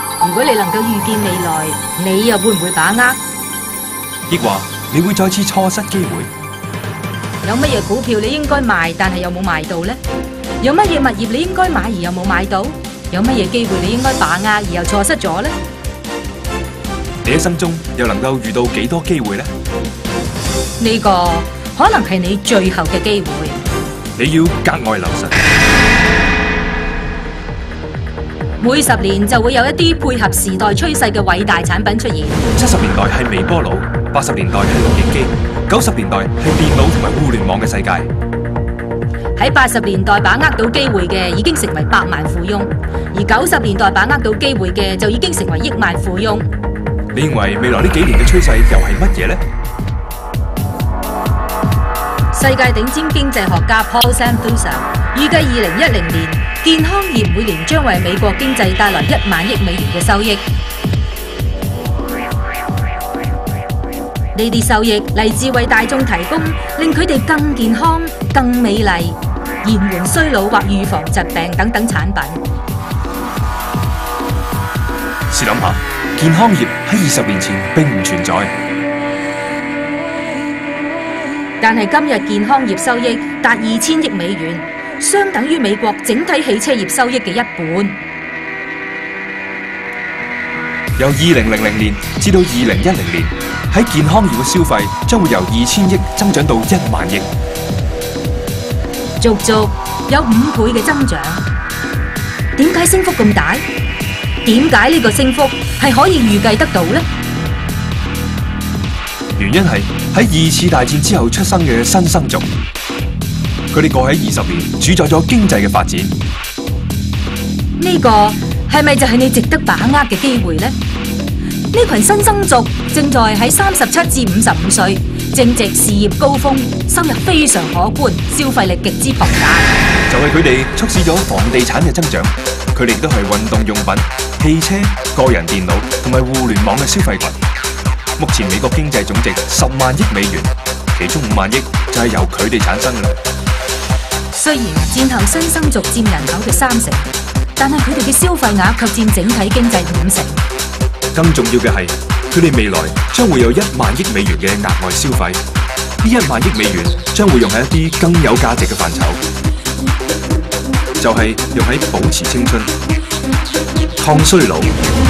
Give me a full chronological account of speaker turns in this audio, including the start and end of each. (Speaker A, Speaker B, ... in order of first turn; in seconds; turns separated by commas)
Speaker A: 0.2-3.2, Speaker B: 4.3-6.3, Speaker A: 7.4-10.0, Speaker A: 10.6-15.5, Speaker B: 17.2-19.5, Speaker A: 20.8-23.6, Speaker B: 24.1-25.5, Speaker A: 28.6-32.4, Speaker B: 32.5-38.1, Speaker A: 39.4-46.5, Speaker B: 47.1-49.4, Speaker A: 52.3-60.4, Speaker A: 64.3-72.4, Speaker B: 75.3-78.5, Speaker A: 81.6-88.0, Speaker B: 91.0-97.3, Speaker A: 99.2-101.4, Speaker A: 102.5-103.6, Speaker A: 104.4-107.0, Speaker B: 109.3-112.5, Speaker B: 113.7-116.2, Speaker A: 117.8-120.7, Speaker A: 121.7-129.7, Speaker B: 130.1-137.4, Speaker B: 138.2-143.2, Speaker A: 144.3-150.4, Speaker B: 151.1-155.4, Speaker B: 156.0-159.2, Speaker B: 161.0-162.7, Speaker B: 164.0-164.8